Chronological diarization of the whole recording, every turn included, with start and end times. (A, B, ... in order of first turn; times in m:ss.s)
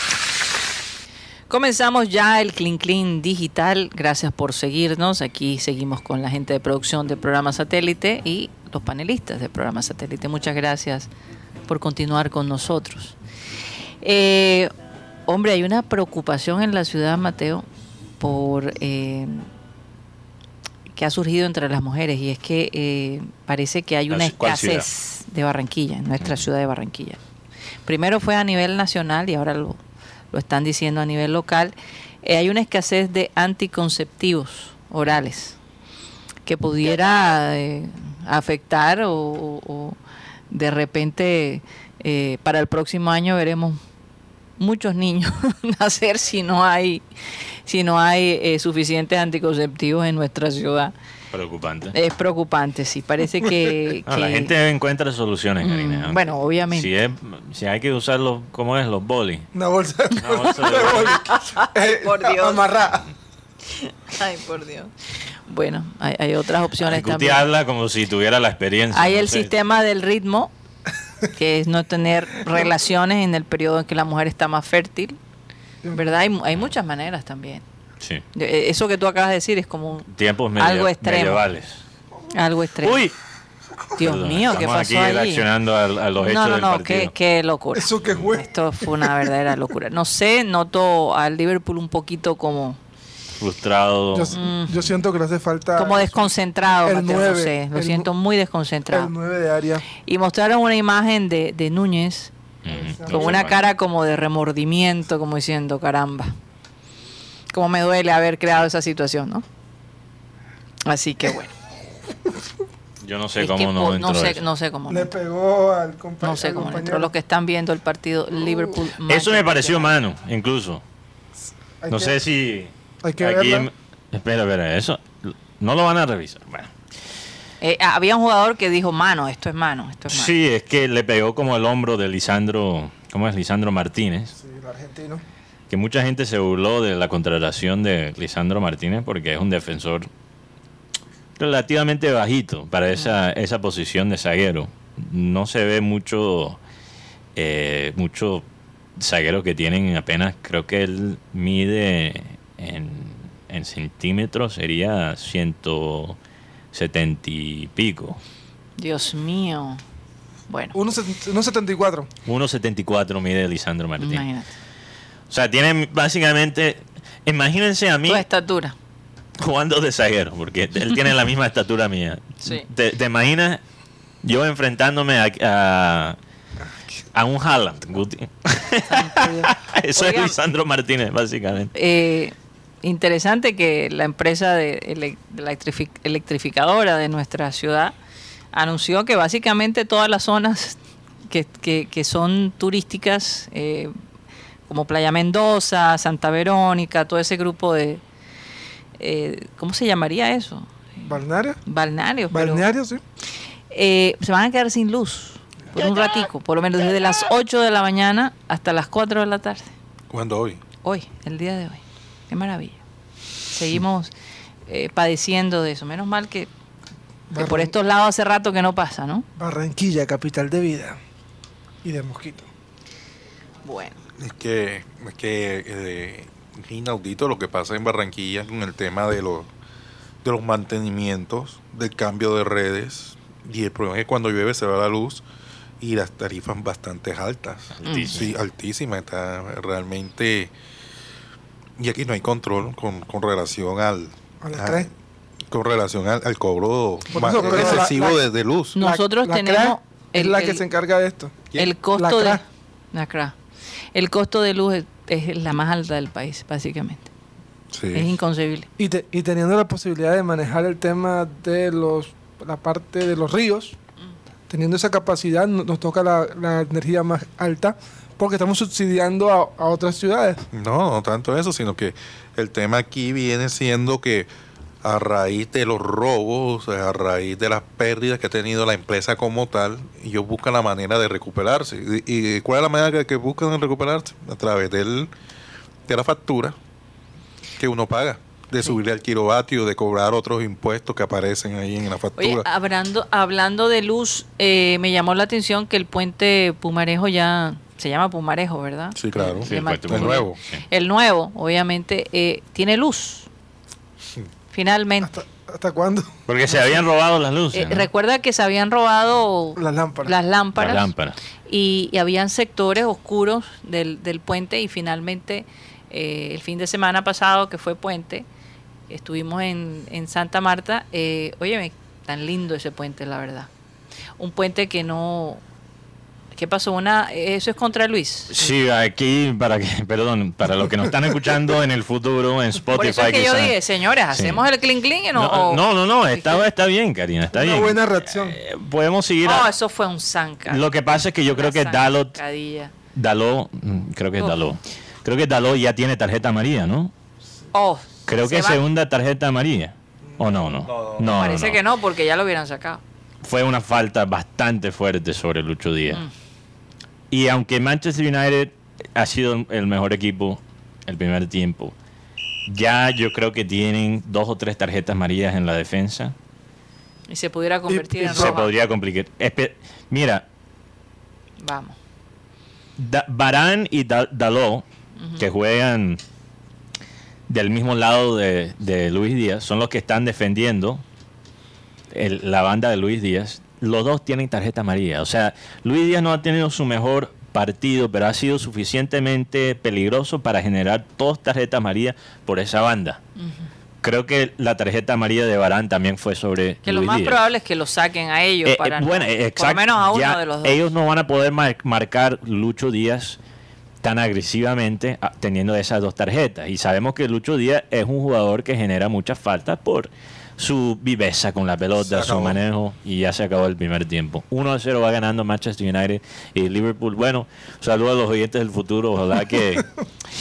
0:01.5-0:11.1 A
0:11.7-0:13.2 A
0:14.0-0:14.7 A
0:15.3-0:17.6 A
0:18.2-0:19.4 A
0:20.9-0:27.2 A
0:24.1-0:24.9 B
0:27.8-0:29.8 A
0:30.3-0:35.6 A
0:36.4-0:40.0 A
0:40.5-0:43.8 A
0:44.6-0:47.0 A
0:47.7-0:50.9 A
0:51.3-0:52.0 B
0:51.9-0:54.5 A
0:54.0-0:59.5 B
0:55.6-0:56.9 A
0:59.5-1:03.1 C
1:00.1-1:01.2 B
1:00.8-1:02.6 A
1:03.7-1:07.4 A
1:06.8-1:09.5 B
1:08.9-1:10.5 A
1:11.3-1:15.2 A
1:15.8-1:16.1 C
1:15.9-1:17.6 A
1:18.3-1:21.4 A
1:20.1-1:21.8 B
1:22.3-1:23.0 A
1:22.8-1:23.1 B
1:24.0-1:25.4 A
1:24.0-1:27.1 B
1:26.2-1:32.8 A
1:27.8-1:29.3 C
1:33.4-1:34.4 B
1:34.1-1:36.2 C
1:34.3-1:34.8 A
1:35.8-1:39.1 A
1:36.8-1:38.1 C
1:38.9-1:39.8 C
1:40.0-1:42.3 A
1:42.6-1:43.6 B
1:42.7-1:43.4 C
1:43.1-1:46.3 A
1:47.5-1:49.4 A
1:50.8-1:51.5 A
1:53.0-1:54.4 B
1:53.4-1:55.1 A
1:54.9-1:57.1 C
1:56.2-1:59.9 A
1:59.1-2:00.8 B
2:01.8-2:02.2 C
2:01.9-2:06.7 B
2:03.0-2:03.7 C
2:07.6-2:10.3 A
2:10.1-2:14.3 B
2:14.3-2:15.2 C
2:15.7-2:20.1 B
2:21.4-2:26.6 B
2:27.4-2:28.4 B
2:29.0-2:36.2 B
2:36.7-2:38.2 B
2:38.8-2:39.8 A
2:40.5-2:40.8 A
2:40.7-2:42.1 C
2:42.2-2:44.2 B
2:44.0-2:44.5 A
2:45.3-2:48.2 B
2:48.0-2:48.8 A
2:49.4-2:53.6 B
2:54.2-2:56.2 B
2:57.1-3:01.7 B
2:58.9-3:00.3 A
3:01.7-3:07.9 A
3:08.5-3:13.9 A
3:14.7-3:18.0 A
3:19.0-3:21.0 A
3:21.0-3:21.6 C
3:21.6-3:22.6 A
3:22.3-3:23.0 C
3:23.7-3:29.7 A
3:30.1-3:30.6 D
3:30.8-3:32.8 A
3:33.5-3:34.1 A
3:34.7-3:36.5 A
3:37.3-3:37.7 C
3:37.3-3:39.2 A
3:39.4-3:41.0 C
3:41.8-3:42.5 C
3:43.6-3:44.0 A
3:44.2-3:49.5 D
3:50.2-3:55.2 D
3:55.8-4:00.5 D
3:57.8-3:58.3 B
3:57.8-3:58.2 A
4:01.8-4:04.9 D
4:04.4-4:04.9 C
4:05.5-4:08.8 D
4:07.1-4:08.2 C
4:07.5-4:07.8 A
4:08.8-4:10.6 A
4:08.8-4:11.4 C
4:11.5-4:13.3 A
4:12.0-4:12.4 C
4:13.9-4:17.1 A
4:17.7-4:18.1 D
4:17.9-4:18.7 A
4:18.8-4:23.8 C
4:24.5-4:30.4 C
4:30.5-4:34.3 D
4:34.8-4:45.1 D
4:45.9-4:46.6 D
4:47.6-4:52.5 D
4:52.2-5:03.3 A
4:58.9-5:00.4 D
4:59.5-5:00.6 B
5:04.5-5:05.1 A
5:05.0-5:06.1 C
5:06.3-5:07.9 B
5:07.5-5:10.9 A
5:09.6-5:10.1 C
5:10.6-5:11.2 B
5:11.5-5:18.2 A
5:18.9-5:23.5 A
5:24.2-5:25.4 A
5:26.4-5:28.5 A
5:28.3-5:33.6 B
5:32.8-5:36.5 A
5:34.1-5:34.4 B
5:35.2-5:39.5 B
5:37.3-5:38.4 C
5:39.2-5:40.6 A
5:40.5-5:42.2 B
5:41.4-5:42.7 A
5:42.9-5:46.9 B
5:47.5-5:48.6 A
5:48.1-5:51.6 B
5:50.6-5:51.0 D
5:51.0-5:52.8 A
5:53.2-5:56.0 B
5:57.1-6:01.7 B
6:02.5-6:06.1 B
6:07.1-6:08.5 A
6:07.7-6:08.3 C
6:08.1-6:10.2 B
6:11.4-6:11.8 A
6:12.8-6:14.6 B
6:15.0-6:15.3 A
6:15.2-6:16.0 B
6:17.3-6:20.8 B
6:21.9-6:33.0 B
6:33.2-6:33.5 A
6:33.8-6:37.2 B
6:36.6-6:40.6 A
6:38.4-6:43.2 B
6:43.8-6:59.7 B
6:51.8-6:52.4 D